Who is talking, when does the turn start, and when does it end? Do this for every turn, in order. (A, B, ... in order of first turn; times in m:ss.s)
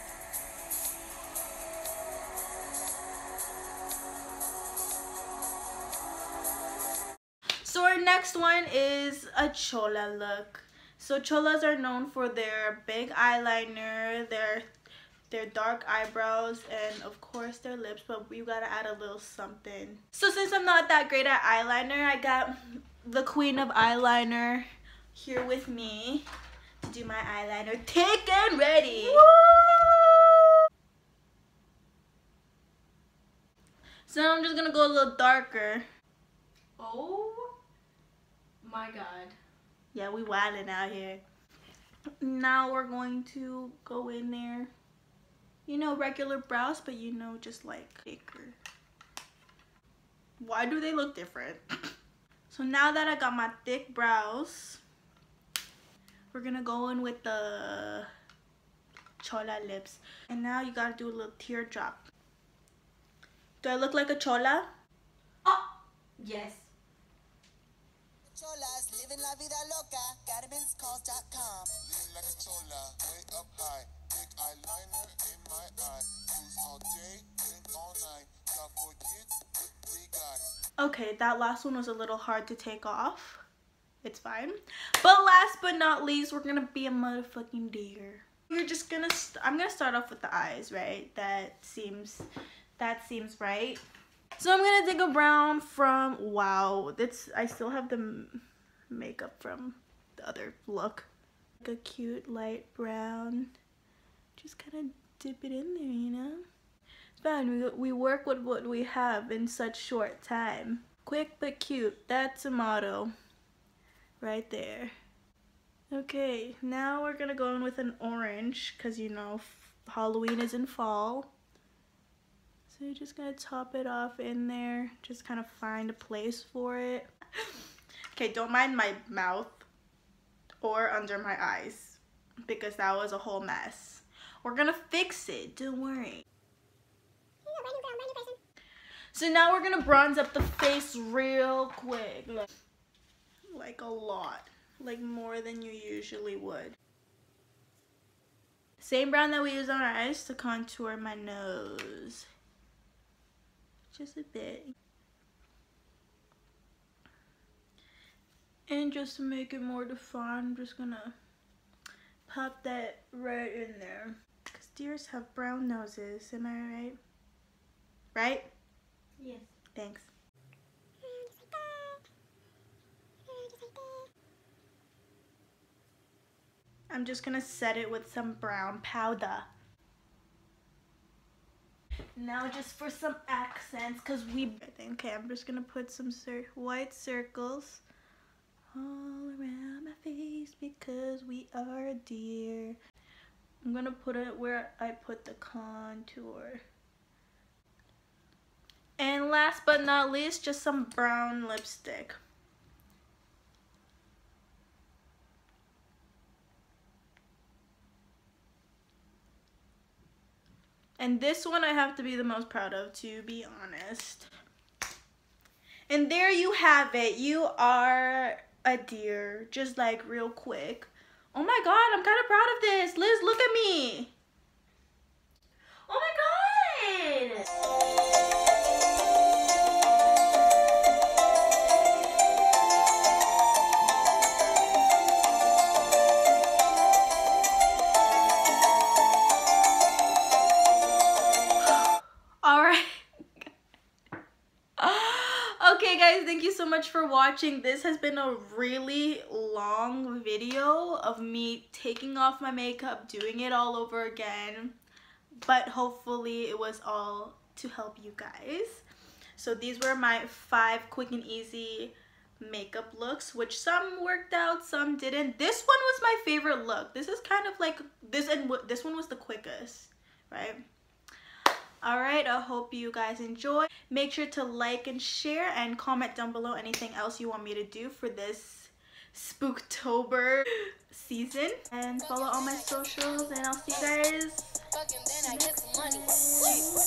0:07.6-0:14.6 A
0:15.3-0:26.2 A
0:26.8-0:29.2 A
0:29.0-0:30.5 B
0:34.1-0:35.8 A
0:36.8-0:37.5 B
0:38.6-0:39.3 B
0:39.9-0:41.2 A
0:42.2-0:44.7 A
0:45.6-0:48.6 A
0:50.4-0:51.9 A
0:52.5-0:54.8 A
0:56.3-0:58.1 A
0:59.2-1:02.0 A
1:03.6-1:04.7 A
1:06.2-1:06.7 B
1:08.3-1:11.8 C
1:11.8-1:20.4 D
1:20.8-1:23.4 A
1:24.0-1:32.3 A
1:32.8-1:33.8 A
1:34.4-1:41.1 A
1:41.6-1:43.5 A
1:44.4-1:46.4 A
1:47.2-1:53.1 A
1:54.2-1:54.9 A
1:55.9-2:01.3 A
2:02.7-2:07.1 A
2:08.1-2:09.6 A
2:10.6-2:16.2 A
2:17.6-2:18.2 B
2:19.1-2:22.5 A
2:23.5-2:26.8 A
2:28.8-2:32.3 A
2:33.9-2:34.7 A
2:38.7-2:41.1 A
2:42.3-2:47.0 A
2:48.1-2:48.5 A
2:49.2-2:49.5 B
2:49.7-2:50.1 A
2:51.1-2:52.0 B
2:53.3-2:54.0 B
2:56.9-2:59.4 A
3:02.2-3:07.8 A
3:08.7-3:12.8 A
3:13.6-3:16.6 A
3:19.0-3:22.2 A
3:31.0-3:34.3 A
3:35.9-3:44.1 A
3:45.8-3:47.4 B
4:02.4-4:03.5 A
4:04.8-4:14.7 A
4:15.4-4:18.8 A
4:19.4-4:30.6 A
4:31.8-4:44.5 A
4:42.0-4:42.8 E
4:44.7-4:46.7 E
4:46.2-4:46.5 B